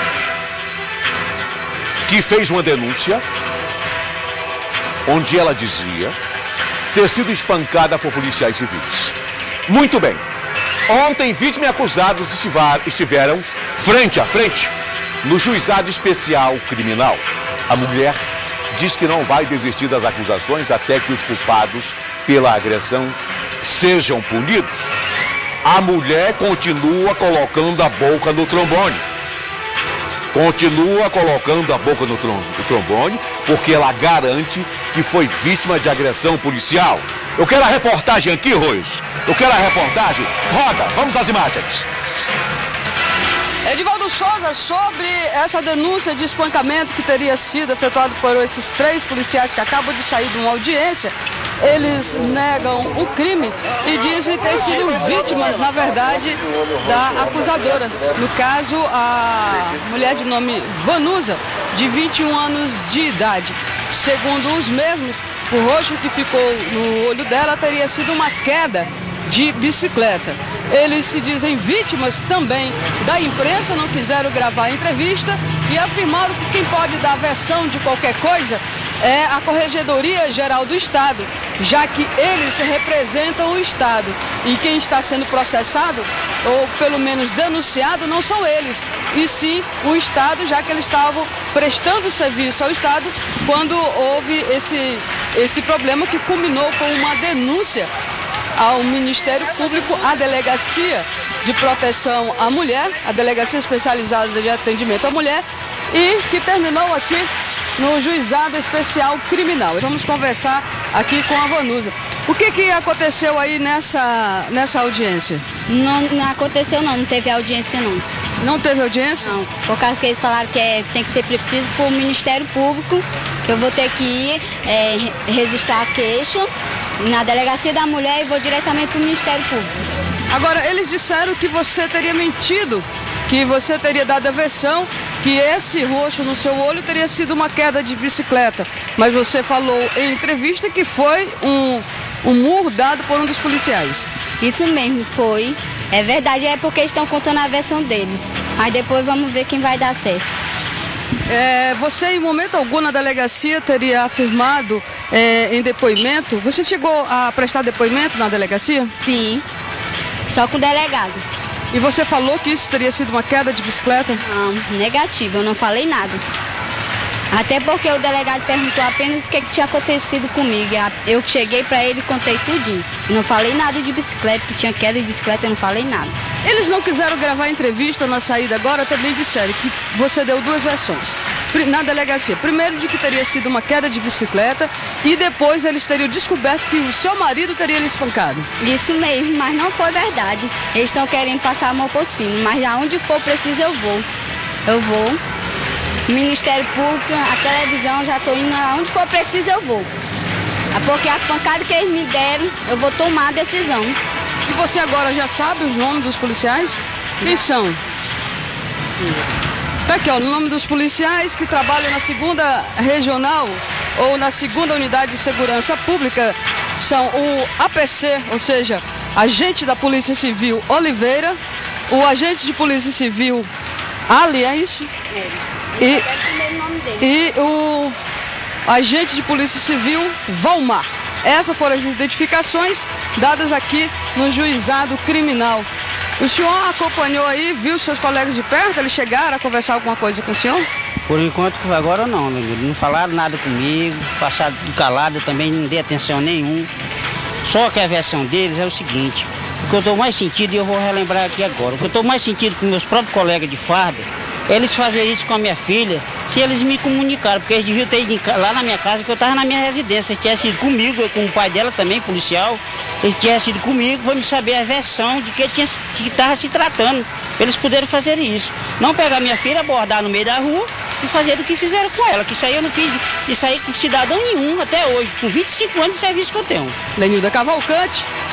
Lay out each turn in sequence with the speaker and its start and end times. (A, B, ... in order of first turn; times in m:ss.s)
0:02.1-0:03.2 A
0:05.1-0:06.2 A
0:06.9-0:09.2 A
0:09.7-0:10.2 A
0:10.9-0:25.0 A
0:25.6-0:29.0 A
0:30.3-0:41.9 A
0:43.6-1:37.9 B
1:38.6-1:55.4 B
1:55.7-1:58.0 C
1:58.4-1:59.4 B
1:59.2-2:09.7 C
2:10.3-2:24.1 B
2:24.4-2:30.2 C
2:31.3-2:38.9 B
2:39.0-2:39.4 C
2:40.2-2:41.2 C
2:41.7-2:44.2 B
2:44.2-2:46.2 C
2:47.3-2:56.2 C
2:56.4-3:08.5 B
3:08.6-3:14.1 C
3:14.7-3:15.2 C
3:16.1-3:19.9 C
3:20.7-3:24.0 C
3:24.5-3:27.8 B
3:29.0-3:29.3 D
3:29.9-3:43.5 B
3:44.1-3:44.9 B
3:45.1-3:47.1 C
3:45.8-3:46.0 B
3:47.0-3:48.0 B
3:48.6-3:55.7 B
3:56.2-4:00.7 B
4:01.1-4:06.7 D
4:07.4-4:36.8 D
4:37.0-4:38.1 B